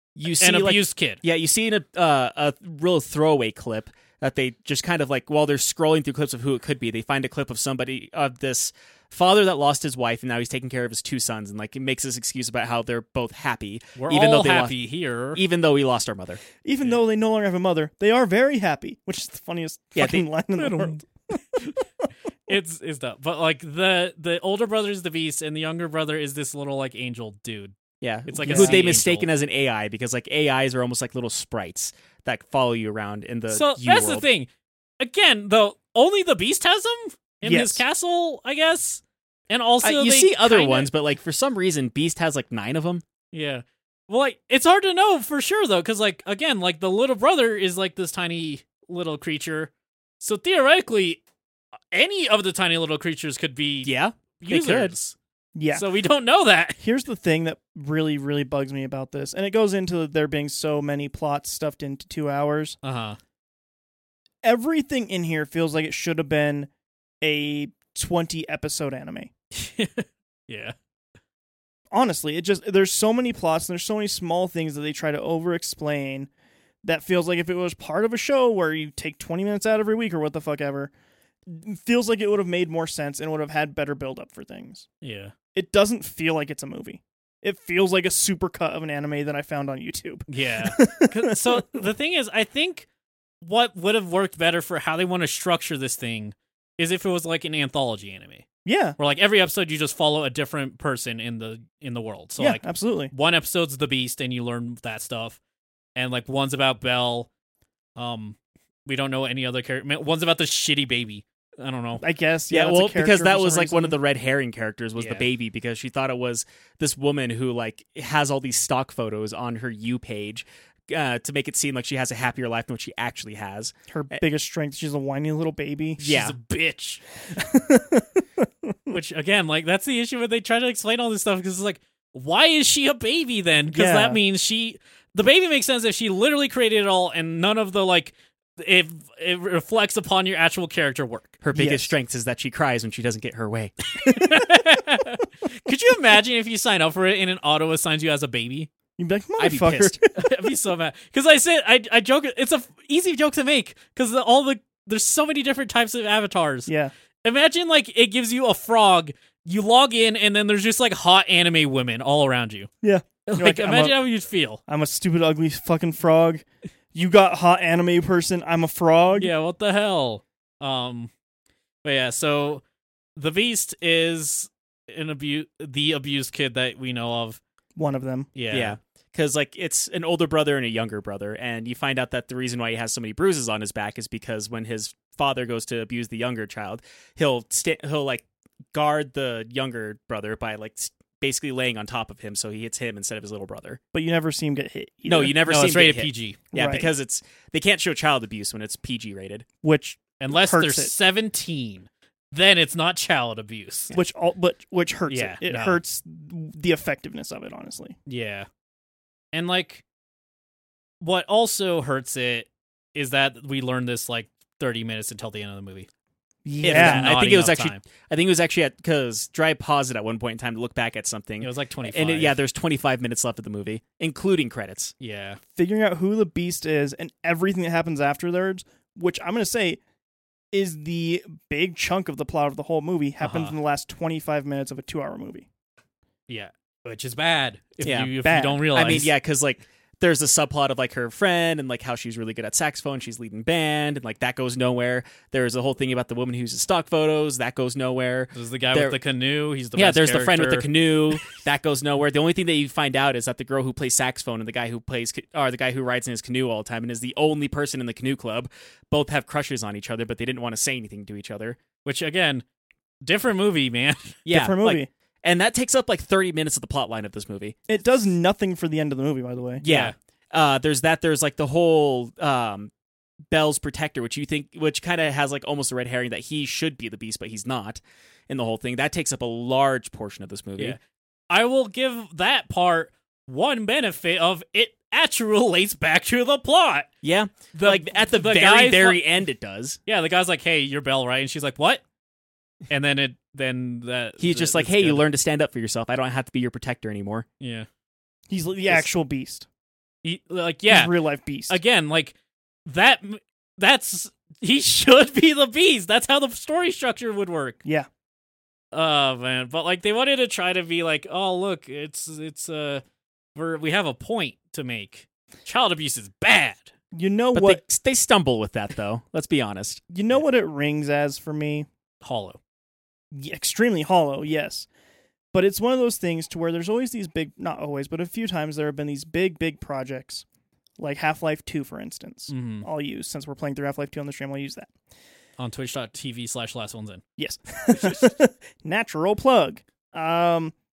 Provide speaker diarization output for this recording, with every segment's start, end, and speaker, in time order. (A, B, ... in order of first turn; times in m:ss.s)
0:00.2-0:14.8 A
0:00.4-0:01.2 B
0:14.0-0:15.4 B
0:15.3-0:16.4 A
0:16.6-0:21.1 C
0:20.0-0:20.2 A
0:20.6-0:21.0 B
0:22.5-0:27.7 B
0:28.0-0:34.2 A
0:28.3-0:29.3 B
0:28.4-0:28.8 C
0:33.5-0:34.5 B
0:35.0-0:40.9 B
0:37.4-0:37.8 C
0:39.8-0:43.0 A
0:43.3-0:51.2 B
0:51.9-0:55.2 B
0:53.8-0:54.9 A
0:55.5-0:55.8 C
0:55.7-0:56.8 B
0:56.8-1:02.8 C
1:02.8-1:03.2 B
1:04.4-1:06.7 C
1:07.2-1:09.3 C
1:09.5-1:10.7 B
1:11.9-1:16.3 C
1:16.8-1:20.9 C
1:21.5-1:24.8 C
1:25.0-1:25.3 B
1:25.5-1:31.8 C
1:30.3-1:32.9 B
1:33.4-1:38.4 B
1:38.6-1:39.0 C
1:39.0-1:45.4 B
1:42.4-1:43.1 C
1:46.0-1:47.3 B
1:48.0-1:52.0 B
1:52.0-1:54.0 C
1:52.5-2:04.2 A
1:55.0-1:55.2 B
2:03.9-2:06.1 C
2:06.0-2:06.4 A
2:06.0-2:07.0 B
2:07.3-2:08.9 C
2:08.9-2:21.4 B
2:13.7-2:14.2 C
2:21.4-2:23.7 A
2:21.5-2:21.9 C
2:24.0-2:28.7 B
2:29.0-2:30.2 C
2:29.4-2:30.0 A
2:30.1-2:36.7 B
2:36.7-2:36.9 C
2:37.2-2:42.7 B
2:42.8-2:44.0 C
2:43.2-2:44.6 B
2:44.7-2:49.3 C
2:49.2-2:51.1 B
2:51.8-2:52.6 B
2:53.2-2:57.4 B
2:57.8-2:58.3 C
2:58.3-2:58.8 B
2:58.5-3:13.8 A
3:13.9-3:15.4 C
3:15.0-3:19.4 A
3:15.4-3:16.4 B
3:16.5-3:16.9 C
3:19.6-3:20.9 C
3:20.2-3:23.9 B
3:23.9-3:28.0 C
3:25.1-3:25.8 B
3:28.0-3:28.5 B
3:29.3-3:29.8 B
3:31.0-3:35.9 B
3:36.4-3:37.1 C
3:36.6-3:44.9 A
3:36.6-3:37.8 B
3:41.4-3:42.4 B
3:45.0-3:45.4 B
3:45.5-3:49.8 C
3:50.5-3:55.5 C
3:53.2-3:53.5 B
3:56.3-3:59.1 B
3:57.8-3:58.1 A
3:58.2-3:58.6 C
3:58.7-4:09.0 A
4:08.3-4:10.7 B
4:09.8-4:21.6 A
4:21.8-4:22.4 B
4:23.0-4:24.2 B
4:24.2-4:27.6 A
4:24.3-4:24.9 C
4:27.7-4:29.6 C
4:29.6-4:32.7 A
4:29.6-4:29.9 B
4:33.3-4:40.8 A
4:41.3-4:46.9 B
4:47.0-4:49.8 A
4:47.5-4:49.0 B
4:49.8-4:51.8 B
4:52.7-4:55.0 B
4:54.2-4:57.2 A
4:57.4-4:57.7 B
4:58.3-4:59.4 C
5:00.0-5:00.9 B
5:00.7-5:01.6 C
5:01.5-5:02.1 B
5:02.6-5:07.6 B
5:08.7-5:12.8 B
5:13.3-5:16.7 B
5:16.9-5:17.6 C
5:17.3-5:19.8 A
5:19.9-5:21.7 C
5:22.0-5:22.4 B
5:23.1-5:24.7 C
5:25.3-5:30.2 C
5:30.8-5:34.7 C
5:32.3-5:32.7 B
5:35.4-5:37.0 B
5:37.2-5:40.5 C